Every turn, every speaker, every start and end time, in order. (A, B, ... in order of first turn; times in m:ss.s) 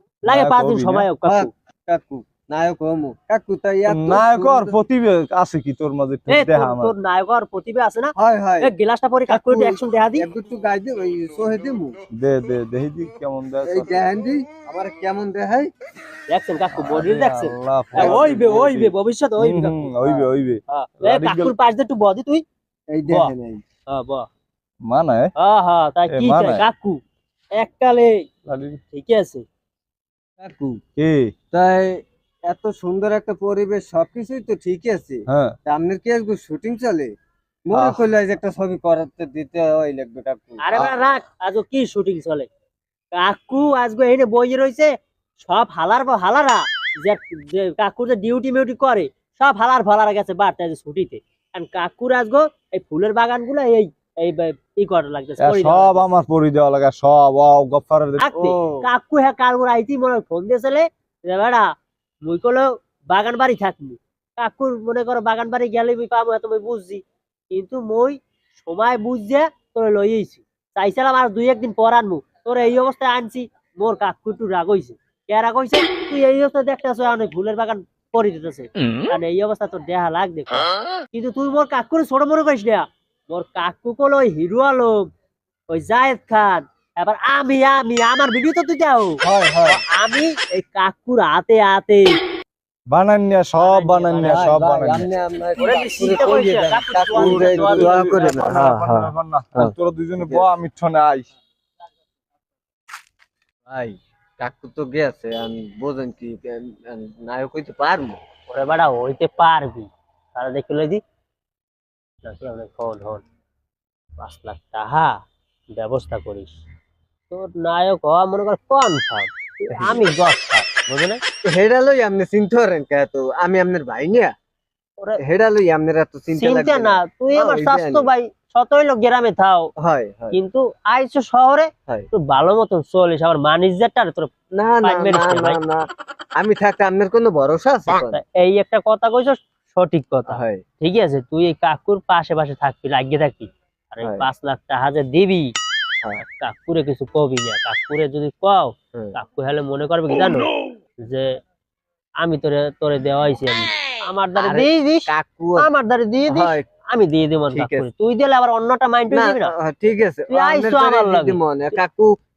0:00.3-0:01.5 A
0:00.3-0:01.1 B
0:01.3-0:04.8 C
0:03.9-0:06.9 B
0:06.3-0:10.3 A
0:08.2-0:08.7 C
0:09.3-0:12.0 C
0:12.2-0:13.9 B
0:13.7-0:15.7 C
0:16.3-0:22.4 A
0:16.8-0:21.5 B
0:18.0-0:18.2 C
0:22.9-0:23.6 C
0:23.9-0:24.3 A
0:24.9-0:25.3 B
0:25.4-0:27.0 A
0:26.1-0:26.7 B
0:27.6-0:28.2 A
0:28.5-0:28.8 B
0:28.9-0:29.4 A
0:30.4-0:30.8 C
0:31.0-0:31.3 B
0:31.5-0:37.1 C
0:35.3-0:35.6 B
0:37.7-0:40.6 C
0:37.7-0:38.0 B
0:40.6-0:42.5 A
0:43.2-0:44.9 A
0:45.4-0:56.1 A
0:55.4-0:58.3 B
0:58.2-1:01.7 A
0:58.3-0:58.9 C
1:02.2-1:25.1 A
1:25.7-1:29.2 A
1:29.2-1:29.8 C
1:29.9-1:32.1 A
1:32.9-1:35.1 B
1:33.6-1:34.6 A
1:34.2-1:40.5 C
1:35.6-1:38.4 A
1:37.1-1:41.3 B
1:43.7-1:48.2 C
1:48.5-1:51.0 A
1:52.2-1:53.2 A
1:54.2-1:55.2 A
1:55.8-1:56.6 A
1:57.3-2:01.2 A
1:59.8-2:00.0 C
2:01.5-2:04.3 C
2:05.2-2:08.1 C
2:06.4-2:09.7 A
2:09.8-2:10.4 C
2:10.3-2:14.3 A
2:14.6-2:15.8 C
2:14.8-2:15.6 A
2:16.4-2:18.2 C
2:18.1-2:25.5 A
2:20.3-2:20.6 C
2:26.2-2:30.5 A
2:31.0-2:31.4 A
2:32.2-2:39.5 A
2:34.4-2:35.7 C
2:36.3-2:36.6 C
2:37.5-2:37.9 C
2:39.1-2:42.1 C
2:40.3-2:41.4 A